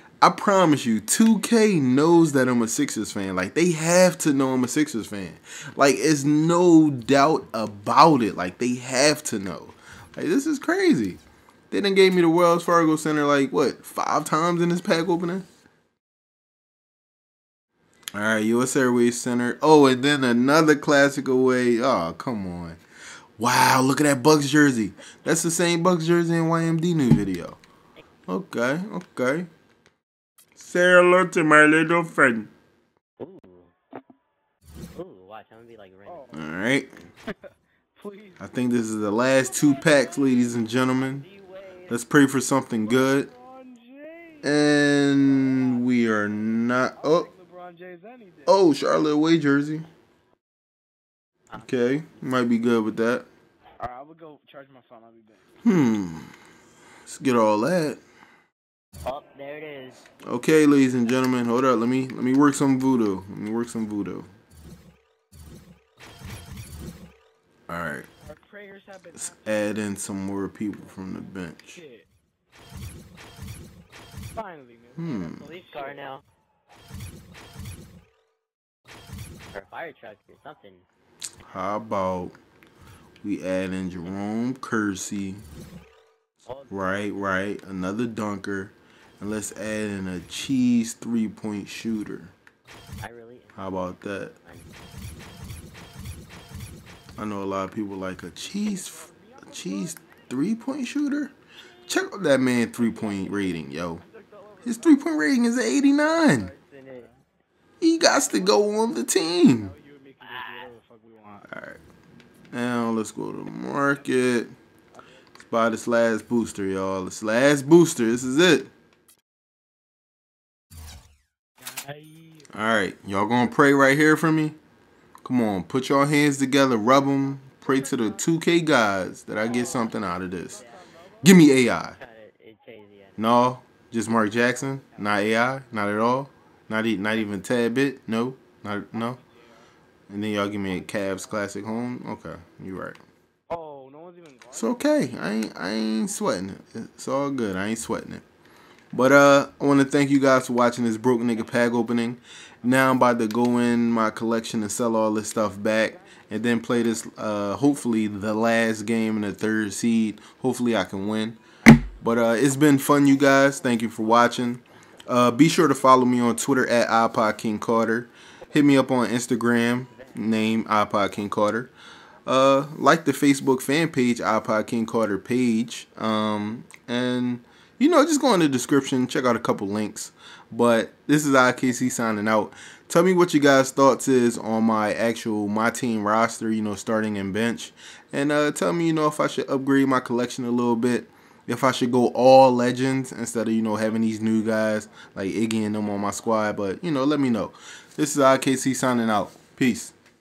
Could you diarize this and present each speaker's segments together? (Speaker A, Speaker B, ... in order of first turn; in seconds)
Speaker A: 0.2-11.2, 11.7-15.5, 18.1-22.8, 23.4-27.6, 28.3-29.5, 30.6-32.5, 36.3-36.9, 38.4-41.3, 41.9-43.3, 44.4-47.3, 48.5-49.9, 51.6-53.3, 55.6-56.3, 57.1-58.0, 60.2-64.3, 67.7-68.1, 69.2-71.8, 75.0-75.4, 81.5-82.3, 83.2-85.5, 86.7-92.3, 93.6-94.3, 97.2-101.3, 101.9-104.0, 104.6-106.5, 107.8-109.7, 111.5-111.8, 112.5-114.5, 115.4-118.7, 122.5-124.6, 125.2-130.6, 131.2-132.0, 133.2-139.2, 140.1-143.0, 144.5-148.2, 148.9-161.4, 161.9-171.7, 172.3-199.9
Speaker B: 33.2-33.7, 35.0-36.3, 41.2-42.0, 59.0-60.0, 75.4-76.2, 79.5-80.8, 86.5-87.3, 93.0-94.7, 106.1-107.1, 110.2-110.7, 129.4-130.8, 131.8-133.2, 169.9-170.3
Speaker C: 36.1-36.5, 37.3-38.5, 39.4-40.7, 42.8-44.6, 45.3-46.2, 47.0-48.6, 53.8-55.5, 68.2-70.0, 71.7-72.1, 74.3-76.1, 98.5-100.2, 102.8-105.7, 108.0-111.5, 115.0-115.2, 121.6-122.5, 127.3-128.2, 129.3-131.5, 134.3-135.3, 138.9-139.7, 140.7-141.7, 143.5-145.5, 152.7-152.9, 155.6-158.2, 193.9-196.2